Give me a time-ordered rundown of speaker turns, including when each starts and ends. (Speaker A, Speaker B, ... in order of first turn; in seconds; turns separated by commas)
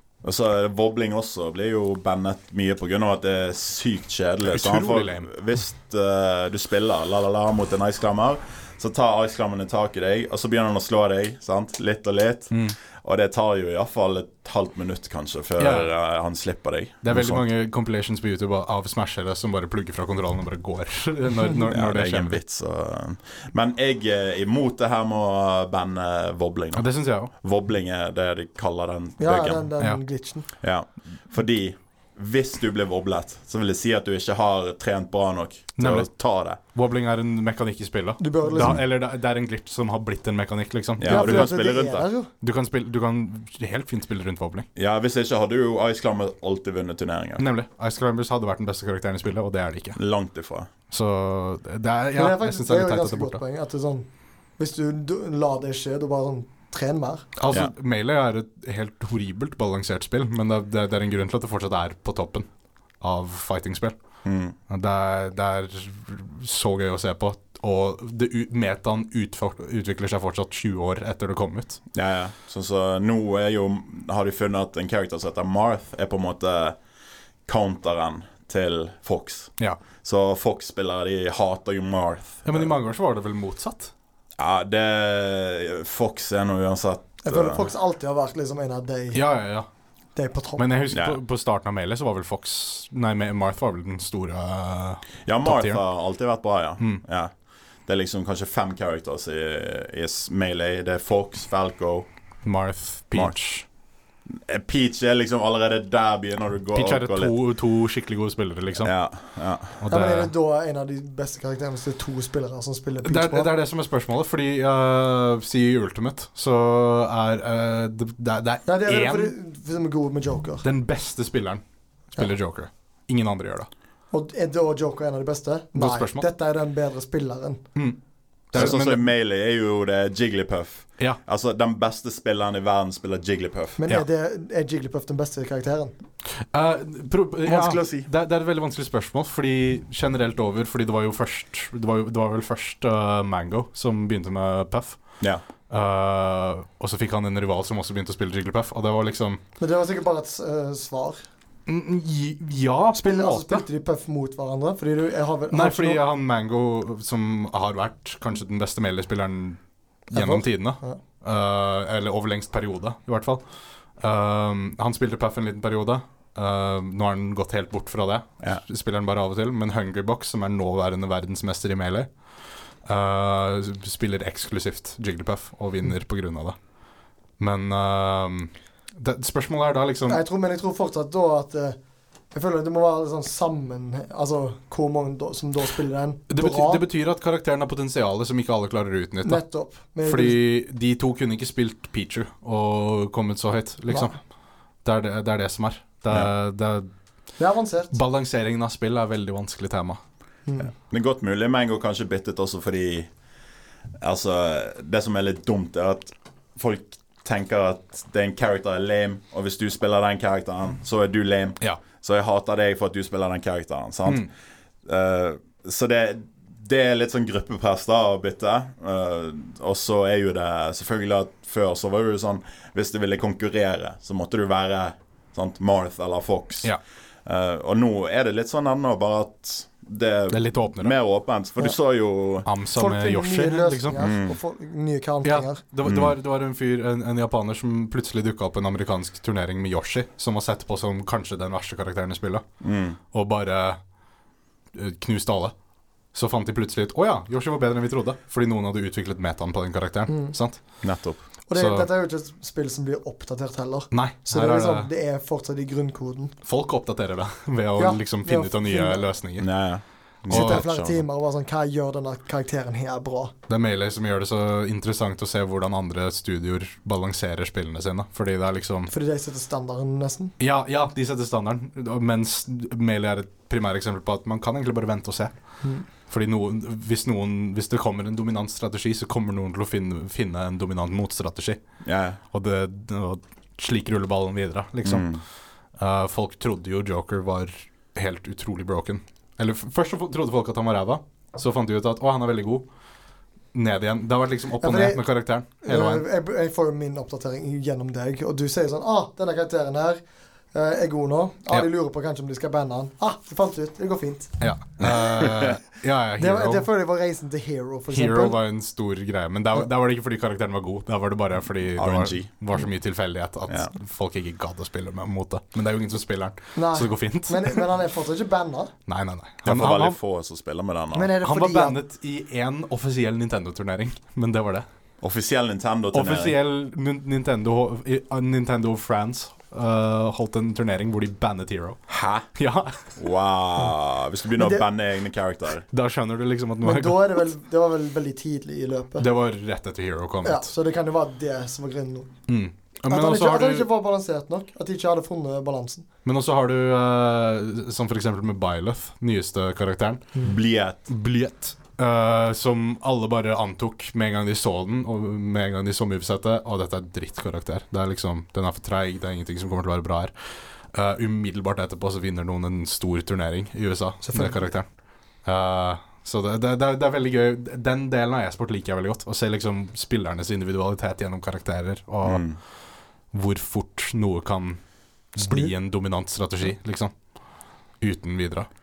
Speaker A: 0.2-17.4, Speaker B: 4.5-5.3, Speaker B: 12.5-12.8, Speaker B: 15.6-15.9, Speaker B: 17.0-22.4, Speaker A: 21.7-29.7, Speaker B: 26.8-27.3, Speaker C: 29.2-30.5, Speaker A: 30.6-36.6, Speaker B: 35.8-41.6, Speaker C: 38.2-38.8, Speaker A: 41.0-42.1, Speaker C: 41.0-42.3, Speaker B: 42.4-44.7, Speaker A: 44.8-47.5, Speaker B: 47.4-50.0, Speaker A: 50.0-50.7, Speaker B: 50.9-53.4, Speaker C: 52.1-54.1, Speaker C: 54.6-57.3, Speaker B: 57.4-62.5, Speaker B: 63.0-64.0, Speaker A: 64.2-64.5, Speaker B: 64.7-71.8, Speaker A: 71.9-76.8, Speaker A: 77.5-82.7, Speaker B: 82.5-83.9, Speaker A: 84.4-87.7, Speaker C: 87.2-89.2, Speaker B: 89.1-89.7, Speaker C: 90.2-90.7, Speaker B: 90.6-95.8, Speaker A: 90.9-91.2, Speaker A: 95.2-97.3, Speaker A: 97.9-102.1, Speaker B: 102.4-103.7, Speaker A: 104.3-107.3, Speaker B: 106.7-109.0, Speaker A: 108.8-109.8, Speaker B: 109.8-110.3, Speaker C: 109.9-113.5, Speaker B: 113.0-119.3, Speaker C: 118.7-120.7, Speaker B: 120.6-121.6, Speaker B: 122.1-123.7, Speaker C: 124.1-127.7, Speaker B: 125.8-126.3, Speaker B: 128.5-129.0, Speaker A: 128.5-133.8, Speaker C: 133.8-135.9, Speaker B: 136.4-149.4, Speaker A: 137.5-138.1, Speaker C: 149.6-151.2, Speaker B: 151.7-153.7, Speaker C: 153.0-156.0, Speaker B: 155.5-163.4, Speaker C: 160.1-161.0, Speaker B: 164.0-172.1, Speaker B: 172.8-176.6, Speaker B: 177.4-180.2, Speaker C: 180.1-181.8, Speaker C: 182.3-186.8, Speaker B: 186.3-194.2, Speaker C: 189.2-190.4, Speaker B: 194.8-196.9, Speaker C: 197.4-197.9, Speaker B: 197.9-200.0, Speaker A: 200.7-203.1, Speaker A: 204.0-214.3, Speaker A: 214.8-226.7, Speaker A: 227.2-232.5, Speaker B: 230.3-230.9, Speaker B: 232.5-234.0, Speaker C: 232.8-235.6, Speaker A: 234.0-234.4, Speaker B: 235.2-242.4, Speaker A: 235.8-236.2, Speaker A: 242.6-243.0, Speaker B: 243.1-243.8, Speaker B: 244.7-245.5, Speaker B: 246.1-250.6, Speaker C: 250.1-250.3, Speaker A: 250.8-251.2, Speaker C: 251.5-256.4, Speaker B: 251.5-251.9, Speaker B: 253.9-254.9, Speaker B: 256.4-259.5, Speaker C: 257.8-259.0, Speaker A: 259.4-261.0, Speaker B: 260.3-260.6, Speaker C: 260.3-263.3, Speaker B: 263.5-268.9, Speaker C: 268.9-270.3, Speaker B: 270.4-275.3, Speaker B: 276.0-281.6, Speaker A: 281.9-282.2, Speaker B: 282.3-285.2, Speaker A: 284.8-285.2, Speaker B: 285.8-292.6, Speaker B: 293.5-296.1, Speaker C: 294.6-295.0, Speaker C: 295.6-300.0, Speaker C: 300.5-304.3, Speaker B: 304.4-306.7, Speaker A: 304.8-305.6, Speaker C: 306.2-308.4, Speaker B: 307.9-317.6, Speaker A: 311.8-312.3, Speaker C: 316.6-318.7, Speaker B: 318.9-320.0, Speaker A: 319.4-321.1, Speaker C: 320.9-321.8, Speaker B: 321.2-324.7, Speaker A: 325.0-326.4, Speaker B: 325.9-331.8, Speaker A: 331.9-332.3, Speaker B: 332.4-332.9, Speaker A: 333.0-335.7, Speaker C: 334.4-334.6, Speaker B: 335.7-337.3, Speaker C: 336.6-339.1, Speaker B: 339.0-340.5, Speaker C: 340.2-342.1, Speaker B: 342.3-343.7, Speaker C: 342.9-345.9, Speaker B: 346.1-350.1, Speaker A: 350.2-350.9, Speaker B: 350.9-360.1, Speaker B: 360.7-364.7, Speaker C: 364.0-364.4, Speaker B: 365.2-372.4, Speaker A: 372.0-372.4, Speaker B: 373.1-374.6, Speaker B: 375.1-376.9, Speaker C: 375.2-375.5, Speaker B: 377.8-378.5